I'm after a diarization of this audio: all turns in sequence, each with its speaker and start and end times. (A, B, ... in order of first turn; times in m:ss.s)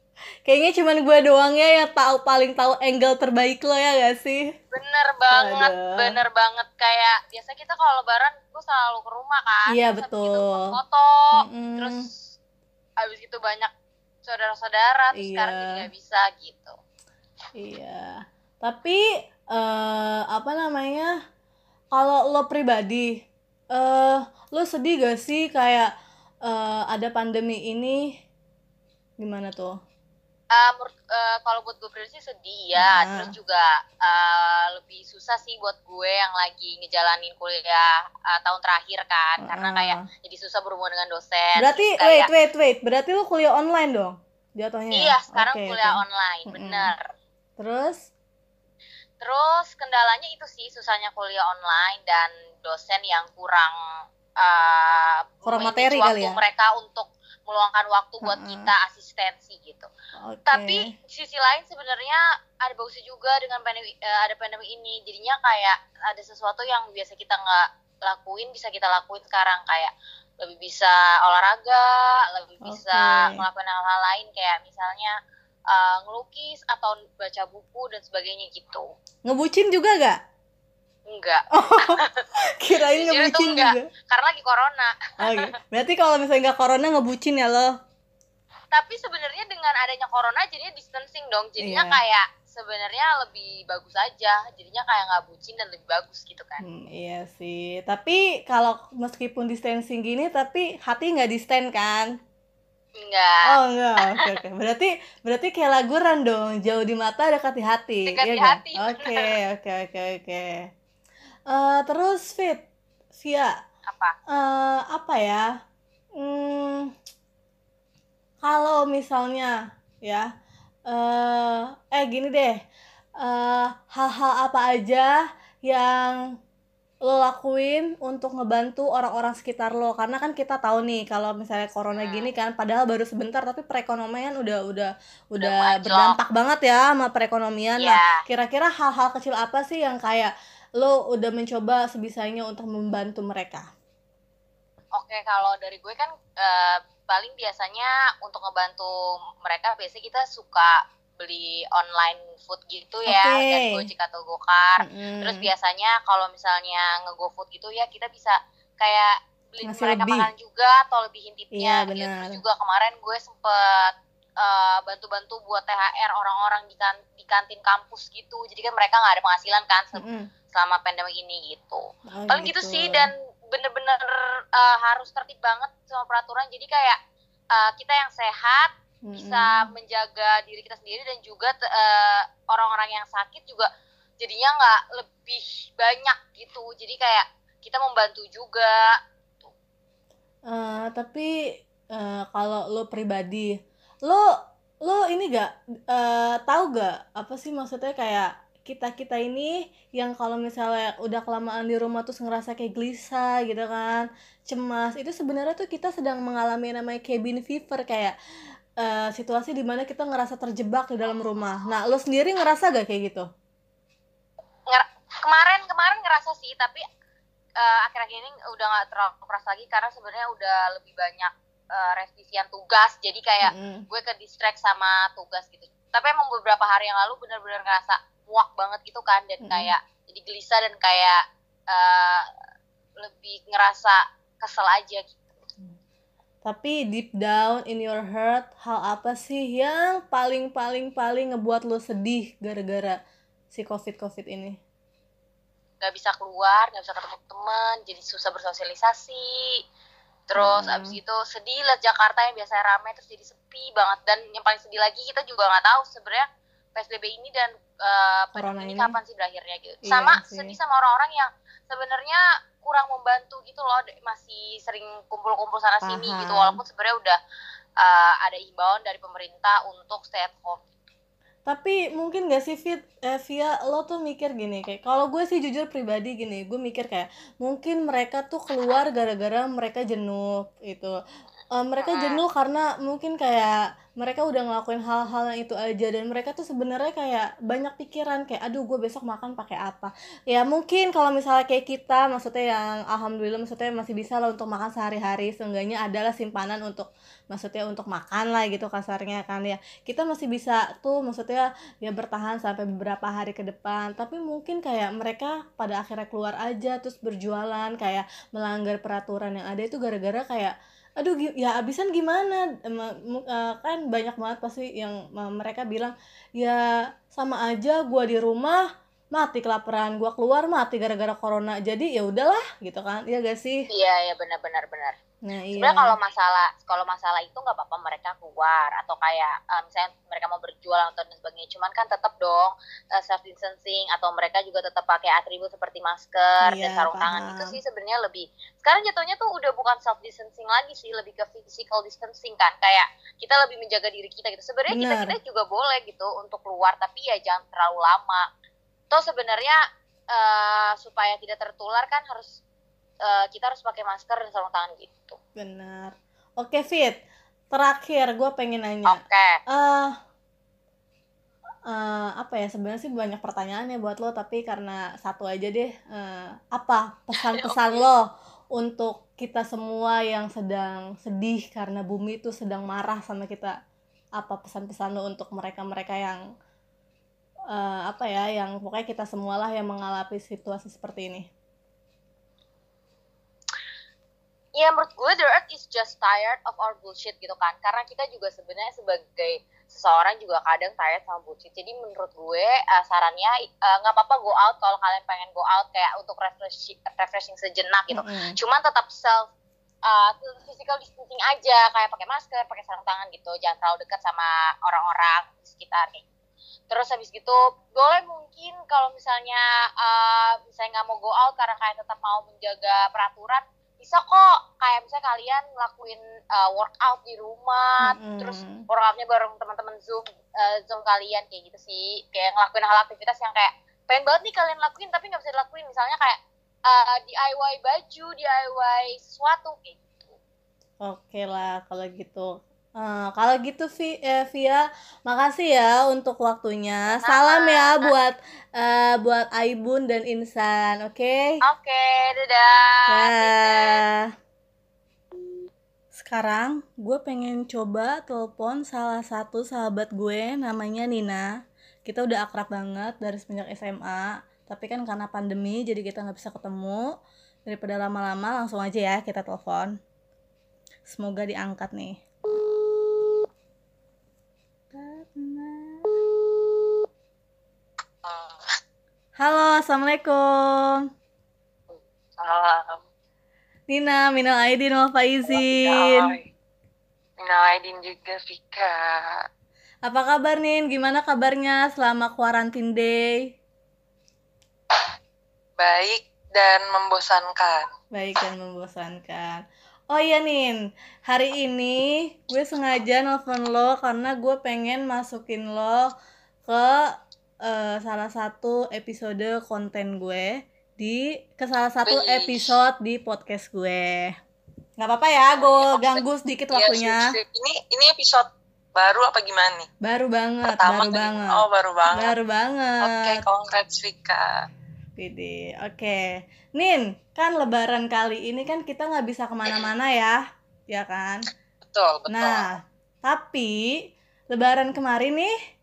0:00.5-0:04.5 A
0:04.7-0:12.2 B
0:05.3-0:06.2 A
0:09.7-0:10.7 A
0:11.4-0:12.1 A
0:13.0-0:13.7 B
0:14.2-0:16.8 B
0:15.2-0:15.9 A
0:17.6-0:21.1 A
0:21.9-0:23.2 A
0:23.7-0:25.9 A
0:26.4-0:28.1 A
0:29.2-0:29.8 A
0:30.5-0:42.3 B
0:32.8-0:33.3 A
0:39.4-0:40.0 A
0:41.6-0:46.9 A
0:44.9-0:47.1 B
0:47.6-0:48.1 A
0:49.2-0:53.8 B
0:54.4-0:59.9 B
0:55.5-0:56.4 A
0:58.2-0:58.7 A
1:00.2-1:00.9 A
1:00.5-1:15.2 B
1:12.6-1:13.4 A
1:15.7-1:18.9 B
1:19.3-1:20.2 A
1:21.1-1:25.5 B
1:21.6-1:22.0 A
1:22.6-1:23.9 A
1:25.2-1:27.7 A
1:28.7-1:36.6 B
1:31.6-1:32.0 A
1:36.6-1:42.2 A
1:43.0-1:43.5 B
1:43.5-1:50.6 A
1:44.0-1:44.3 B
1:48.1-1:49.3 B
1:51.5-1:52.6 A
1:53.2-1:53.5 A
1:53.9-1:54.2 B
1:54.3-1:55.5 A
1:56.2-1:56.9 A
1:58.4-2:00.3 A
2:00.9-2:02.6 A
2:03.2-2:06.2 A
2:07.0-2:23.7 A
2:11.9-2:12.3 B
2:15.4-2:16.2 B
2:17.8-2:18.2 B
2:25.0-2:57.0 B
2:33.1-2:33.9 A
2:34.8-2:35.5 A
2:39.6-2:40.3 A
2:41.6-2:42.4 A
2:50.0-2:50.3 A
2:52.1-2:53.1 A
2:57.5-3:03.7 B
2:59.0-2:59.7 A
3:04.2-3:09.5 B
3:10.5-3:11.3 A
3:11.9-3:14.3 A
3:14.8-3:28.2 A
3:28.8-3:33.3 A
3:34.7-3:36.8 B
3:37.6-3:52.3 B
3:43.4-3:43.9 A
3:49.4-3:49.7 A
3:53.0-3:55.2 B
3:56.4-4:03.0 A
4:03.5-4:04.6 A
4:05.8-4:09.6 B
4:10.3-4:27.2 B
4:10.4-4:11.0 A
4:18.4-4:19.0 A
4:19.9-4:20.6 A
4:25.8-4:26.6 A
4:27.8-4:30.6 B
4:31.5-4:41.0 A
4:41.5-5:23.6 A
5:23.7-5:25.0 B
5:25.2-5:26.0 A
5:25.6-5:48.3 B
5:36.4-5:37.6 A
5:44.7-5:45.2 A
5:48.9-5:49.6 B
5:50.1-5:52.4 B
5:53.0-5:55.2 B
5:55.4-5:57.0 A
5:57.5-6:00.0 A
5:58.9-5:59.4 B
6:01.7-6:08.0 A
6:08.6-6:13.6 A
6:14.2-6:16.2 A
6:17.5-6:21.3 A
6:24.6-6:39.3 B
6:37.9-6:38.4 A
6:39.9-6:46.1 B
6:46.7-7:10.2 B
6:57.8-6:58.7 A
7:10.8-7:21.4 A
7:16.9-7:17.9 B
7:21.4-7:23.8 B
7:22.9-7:24.0 A
7:25.9-7:31.3 A
7:31.9-7:36.8 A
7:37.5-7:39.8 A
7:40.9-7:42.0 A
7:44.7-7:46.0 A
7:48.0-7:48.3 C
7:49.2-7:50.8 A
7:51.7-7:52.8 C
7:53.7-7:56.2 A
7:55.3-7:56.2 C
7:57.2-7:59.2 C
7:59.9-8:03.2 A
8:05.6-8:07.7 C
8:07.9-8:15.9 A
8:16.5-8:16.9 A
8:17.4-8:24.2 A
8:21.8-8:22.5 C
8:24.8-8:27.1 A
8:25.4-8:29.7 C
8:29.8-8:33.2 A
8:30.4-8:32.2 C
8:32.8-8:34.4 C
8:35.0-8:36.0 A
8:36.6-8:40.2 A
8:40.7-8:41.3 A
8:41.6-8:42.5 C
8:42.1-8:43.7 A
8:44.3-8:45.3 A